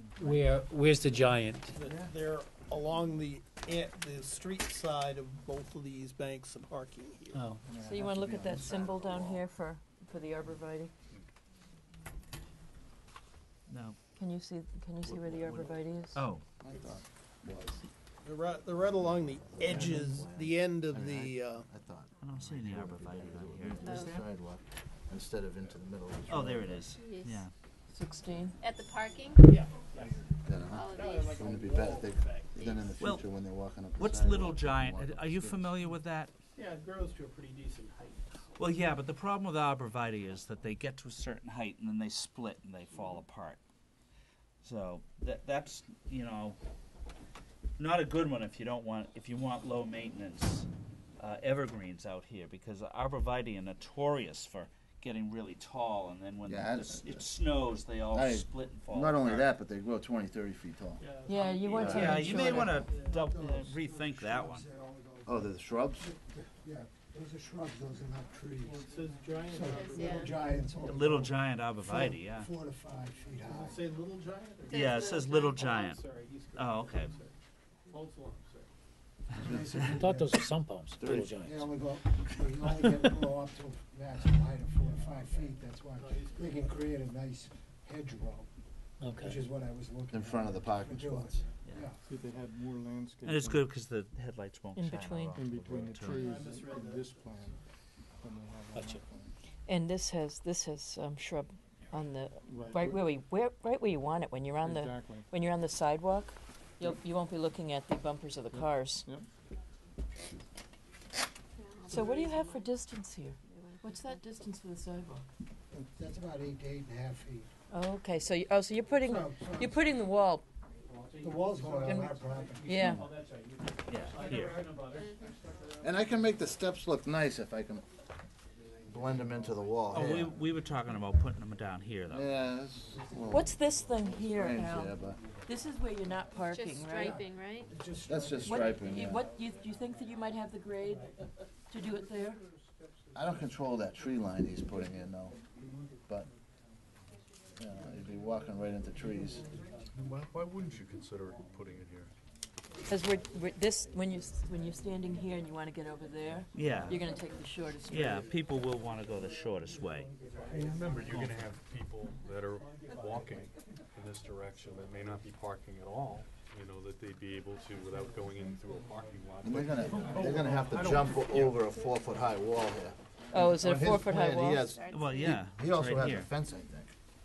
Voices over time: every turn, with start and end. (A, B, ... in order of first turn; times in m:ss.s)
0:00.2-0:01.6 A
0:01.7-0:07.4 B
0:01.8-0:02.1 C
0:07.7-0:09.4 C
0:07.8-0:10.9 D
0:13.7-0:14.0 E
0:14.2-0:16.2 D
0:15.1-0:16.4 E
0:16.6-0:17.8 C
0:18.2-0:21.7 B
0:19.2-0:26.9 C
0:22.2-0:24.3 E
0:23.8-0:24.2 F
0:26.3-0:27.5 E
0:27.0-0:27.4 F
0:27.9-0:28.6 D
0:28.6-0:29.5 F
0:29.4-0:33.0 B
0:30.4-0:35.8 C
0:30.7-0:31.4 F
0:33.0-0:33.3 E
0:34.0-0:36.3 E
0:36.6-0:38.5 B
0:38.6-0:43.6 E
0:44.6-0:46.6 E
0:47.8-0:50.7 E
0:51.2-0:59.5 E
0:56.5-0:57.3 C
0:58.1-1:01.0 C
1:01.0-1:03.2 B
1:01.3-1:02.6 D
1:01.8-1:02.3 C
1:01.8-1:04.7 E
1:02.1-1:08.9 G
1:05.2-1:06.1 C
1:08.7-1:09.5 H
1:08.8-1:10.4 B
1:09.5-1:13.9 G
1:09.7-1:10.4 F
1:10.8-1:12.5 E
1:13.5-1:17.4 B
1:14.7-1:15.7 F
1:14.7-1:17.1 E
1:17.9-1:18.7 B
1:19.4-1:20.5 G
1:19.9-1:21.5 A
1:21.0-1:21.4 E
1:21.3-1:28.5 G
1:24.8-1:26.8 B
1:29.0-1:29.4 A
1:29.2-1:32.0 G
1:30.1-1:31.3 C
1:32.1-1:33.7 H
1:33.2-1:36.3 E
1:34.8-1:35.3 D
1:35.4-1:37.6 H
1:36.1-1:37.6 B
1:38.2-1:39.3 H
1:39.7-1:49.1 D
1:42.5-1:43.0 H
1:44.6-1:45.3 H
1:48.6-1:49.3 H
1:51.6-1:52.7 F
1:51.9-1:55.2 D
1:53.4-1:54.2 F
1:55.7-1:57.5 G
1:57.7-2:00.4 D
1:58.9-2:00.0 G
2:01.0-2:03.5 D
2:01.2-2:03.1 G
2:03.9-2:04.7 E
2:04.1-2:05.8 B
2:04.2-2:05.1 D
2:04.9-2:05.7 F
2:05.8-2:07.8 C
2:08.9-2:10.4 C
2:09.9-2:12.3 E
2:12.1-2:13.6 C
2:13.3-2:17.1 D
2:14.3-2:15.2 C
2:16.4-2:17.7 F
2:16.8-2:19.0 G
2:18.0-2:19.3 C
2:18.4-2:21.1 D
2:21.7-2:22.4 D
2:23.1-2:25.4 C
2:27.6-2:29.5 C
2:29.9-2:32.1 I
2:32.9-2:38.4 D
2:36.5-2:37.1 E
2:37.9-2:40.1 E
2:40.4-2:51.7 I
2:49.4-2:56.9 C
2:49.9-2:50.8 H
2:53.3-2:54.7 D
2:54.6-2:55.4 F
2:54.9-2:56.3 E